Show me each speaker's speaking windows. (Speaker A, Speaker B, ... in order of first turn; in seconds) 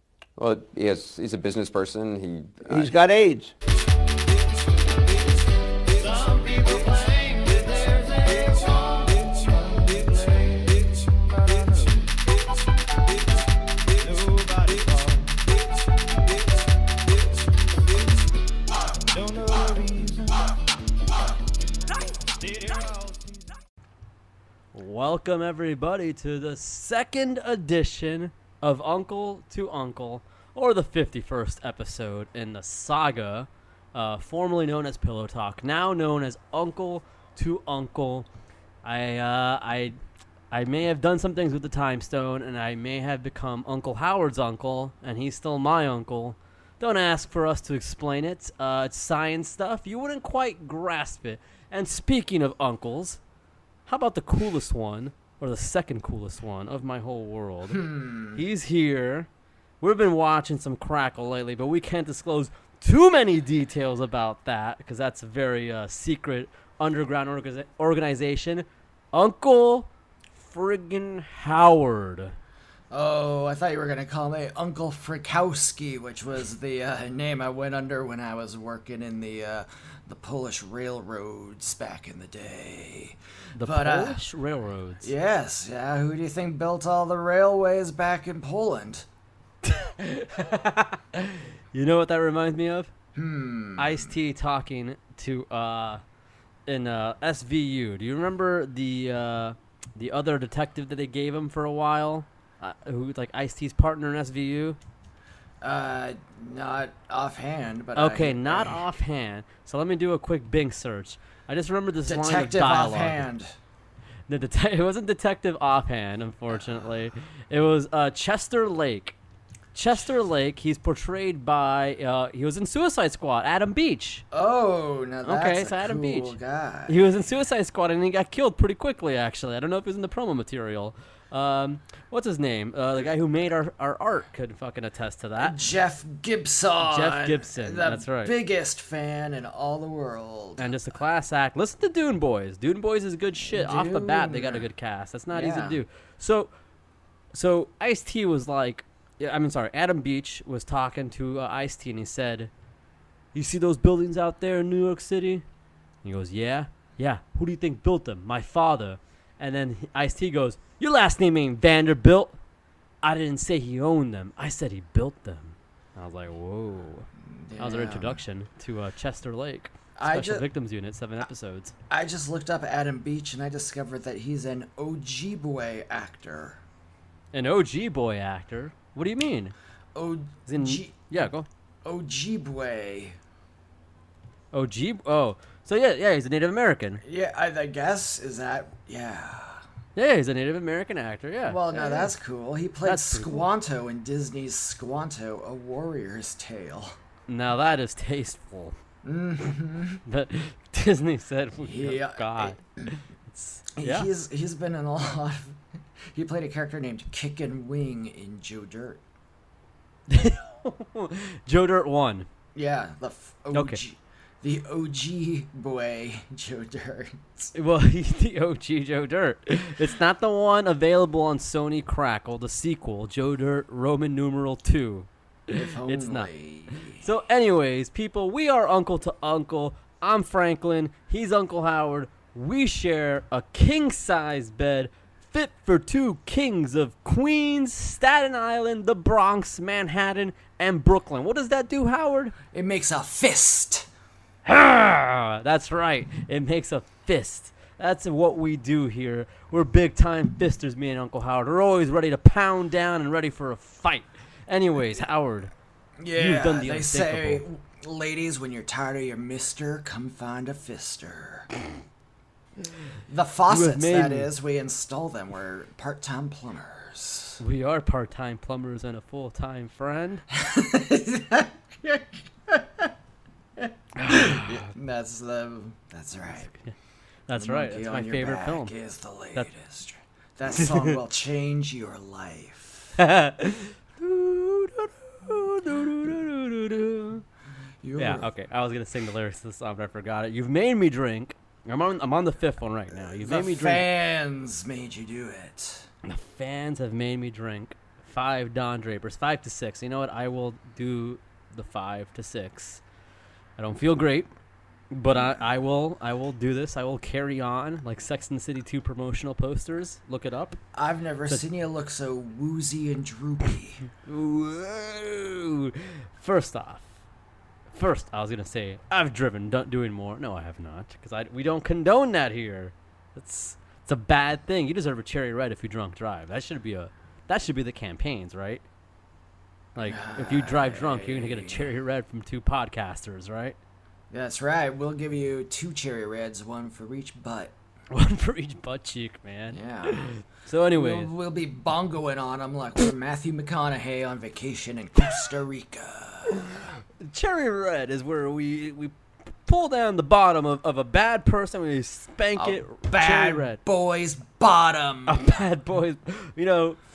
Speaker A: 0.4-2.9
Speaker B: 2.6-3.5, 5.8-18.2, 19.1-20.5, 22.2-23.5
Speaker C: 24.7-38.3, 38.8-40.0, 40.5-53.2, 53.9-57.8, 58.3-59.3, 59.8-72.3, 83.5-85.1, 89.6-92.9, 93.8-96.0, 96.7-104.8, 107.9-113.2, 114.3-119.2, 119.7-124.2, 125.2-126.3, 126.9-135.6, 136.8-138.3, 140.6-146.5, 147.3-152.5, 153.3-155.4, 156.0-162.4, 163.0-171.7, 177.3-179.5, 180.5-181.5, 184.5-187.0, 189.9-192.1, 192.8-193.5, 197.3-198.8, 200.1-204.1, 210.1-212.3, 213.5-213.8, 217.5-226.3, 226.8-242.3, 244.4-255.5, 256.1-257.4, 263.5-264.3, 267.4-270.2, 274.0-274.6, 277.3-278.7, 280.5-281.0, 283.0-287.2, 288.0-293.9, 296.0-302.8, 303.6-304.3, 304.9-310.6, 314.0-316.9, 317.7-328.6, 329.7-333.6, 337.9-341.1, 346.4-353.6, 355.1-356.8
Speaker D: 57.7-58.4, 72.9-84.2, 85.0-89.0, 93.1-94.1, 105.6-108.8, 112.0-113.5, 116.5-116.9, 124.3-127.0, 135.4-140.7, 143.4-144.6, 145.3-145.8, 167.3-168.2, 169.9-170.4, 171.9-176.6, 179.9-181.2, 181.8-183.2, 187.0-189.6, 191.4-196.9, 199.0-200.0, 201.6-202.6, 203.8-205.6, 206.1-209.0, 212.5-217.5, 225.5-227.1, 242.5-243.9, 256.0-261.5, 263.1-267.4, 270.3-272.9, 273.6-276.5, 277.3-283.0, 287.8-288.3, 293.1-295.9, 305.1-305.5, 310.7-313.9, 329.9-331.7, 334.1-337.5, 339.5-340.1, 340.7-346.7, 352.4-355.4